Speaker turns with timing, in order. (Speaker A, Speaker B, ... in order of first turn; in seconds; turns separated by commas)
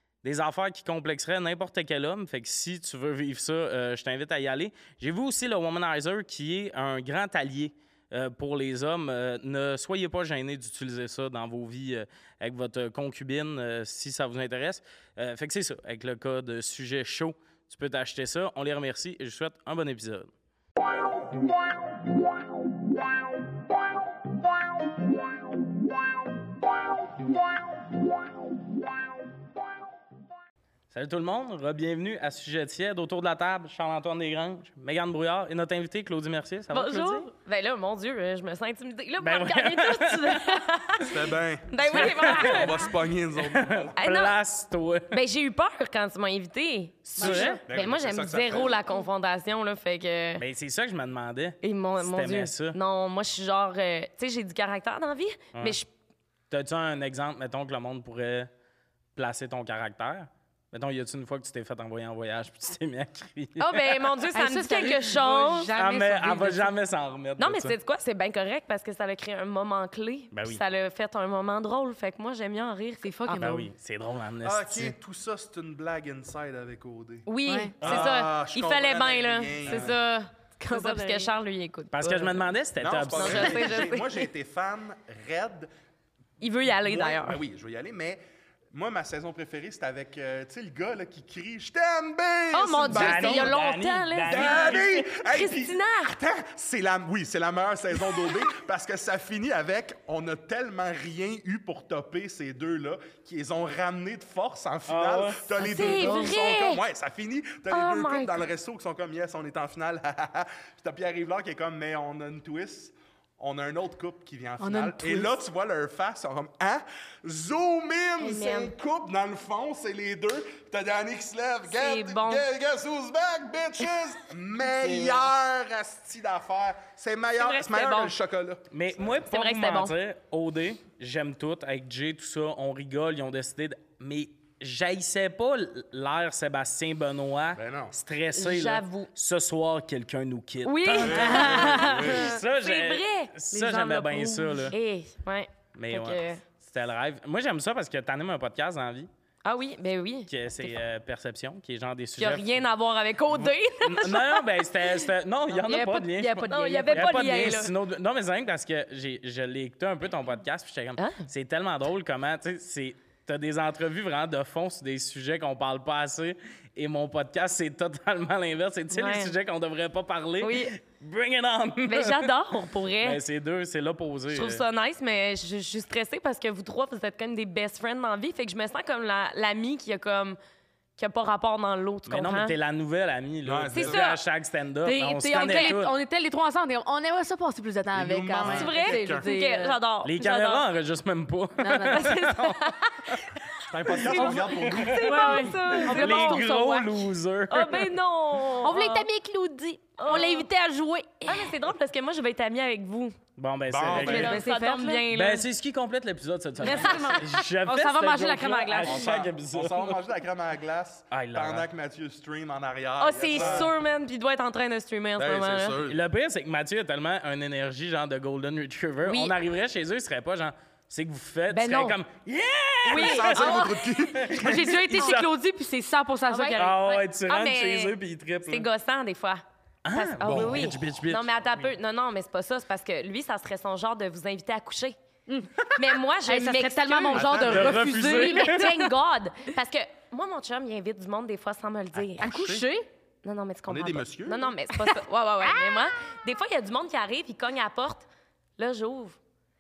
Speaker A: 0.2-20.3, Speaker A: 30.9-37.3, Speaker B: 36.7-42.9, Speaker A: 39.2-40.6, Speaker C: 41.0-43.9, Speaker A: 41.8-42.7, Speaker A: 43.4-45.1, Speaker B: 44.0-44.4, Speaker B: 45.1-50.4, Speaker A: 47.1-47.6, Speaker D: 47.1-47.6, Speaker C: 47.2-48.8, Speaker A: 50.4-52.8, Speaker B: 51.6-55.9, Speaker A: 56.5-58.5, Speaker A: 59.1-63.8, Speaker B: 63.6-65.7, Speaker D: 64.3-66.7, Speaker A: 65.7-67.7, Speaker B: 67.4-73.5, Speaker A: 70.3-70.6, Speaker D: 73.0-73.7, Speaker A: 73.4-74.9, Speaker C: 74.4-77.3, Speaker B: 77.2-82.5, Speaker D: 77.5-77.7, Speaker C: 77.8-80.0, Speaker A: 77.8-78.1, Speaker D: 80.6-81.3, Speaker A: 81.9-83.5, Speaker C: 82.8-85.7, Speaker B: 83.1-84.2, Speaker B: 86.4-87.4, Speaker C: 86.8-88.2, Speaker C: 88.7-93.6, Speaker B: 92.5-96.1, Speaker A: 92.9-95.1, Speaker C: 94.3-129.0, Speaker A: 104.9-105.5, Speaker B: 105.6-106.8, Speaker D: 105.7-106.2, Speaker B: 107.7-108.4, Speaker D: 114.6-115.3, Speaker B: 118.2-118.7, Speaker B: 121.7-122.5, Speaker B: 127.4-128.1, Speaker A: 128.7-144.8, Speaker B: 129.3-129.9, Speaker C: 137.6-137.9, Speaker B: 138.3-139.1, Speaker B: 140.7-143.3, Speaker C: 141.0-142.4, Speaker D: 141.1-142.3, Speaker D: 143.5-144.7, Speaker B: 144.7-146.4, Speaker A: 145.8-149.1, Speaker B: 149.4-150.7, Speaker A: 150.3-152.6, Speaker B: 152.2-154.5, Speaker A: 153.4-172.3, Speaker D: 155.5-157.6, Speaker B: 156.5-157.7, Speaker B: 161.0-161.2, Speaker B: 168.9-169.3, Speaker B: 170.4-170.7, Speaker B: 171.8-173.2, Speaker A: 173.0-174.6, Speaker B: 174.3-180.4, Speaker B: 181.0-182.6, Speaker A: 182.1-185.9, Speaker C: 183.4-184.0, Speaker B: 183.7-184.2, Speaker D: 184.8-189.8, Speaker B: 185.3-185.8, Speaker C: 187.9-189.3, Speaker B: 188.4-190.6, Speaker A: 190.0-192.6, Speaker D: 191.6-192.1, Speaker B: 191.9-193.2, Speaker C: 193.7-195.4, Speaker B: 193.8-196.5, Speaker A: 194.5-195.1, Speaker D: 195.0-196.9, Speaker A: 195.6-197.9, Speaker B: 197.5-199.1, Speaker D: 198.6-201.6, Speaker B: 200.0-200.5, Speaker B: 201.3-203.2, Speaker A: 203.4-204.4, Speaker C: 203.7-204.4, Speaker B: 203.9-205.4, Speaker D: 204.0-205.1, Speaker A: 205.1-210.0, Speaker D: 206.6-209.2, Speaker C: 208.8-213.7, Speaker A: 211.1-211.7, Speaker B: 213.0-215.8, Speaker A: 213.3-213.7, Speaker C: 215.2-216.0, Speaker A: 215.9-225.3, Speaker B: 219.0-219.3, Speaker B: 221.5-222.0, Speaker B: 222.8-224.2, Speaker C: 222.9-224.7, Speaker D: 224.3-226.6, Speaker B: 224.9-225.2, Speaker B: 226.3-229.4, Speaker A: 226.6-228.7, Speaker A: 229.8-231.3, Speaker B: 229.9-234.9, Speaker C: 230.2-230.8, Speaker D: 235.3-238.9, Speaker B: 235.7-242.3, Speaker C: 237.1-238.1, Speaker A: 237.4-238.7, Speaker C: 241.9-242.7, Speaker D: 242.2-242.9, Speaker B: 243.2-248.1, Speaker C: 243.7-244.4, Speaker D: 244.7-245.9, Speaker B: 248.6-249.2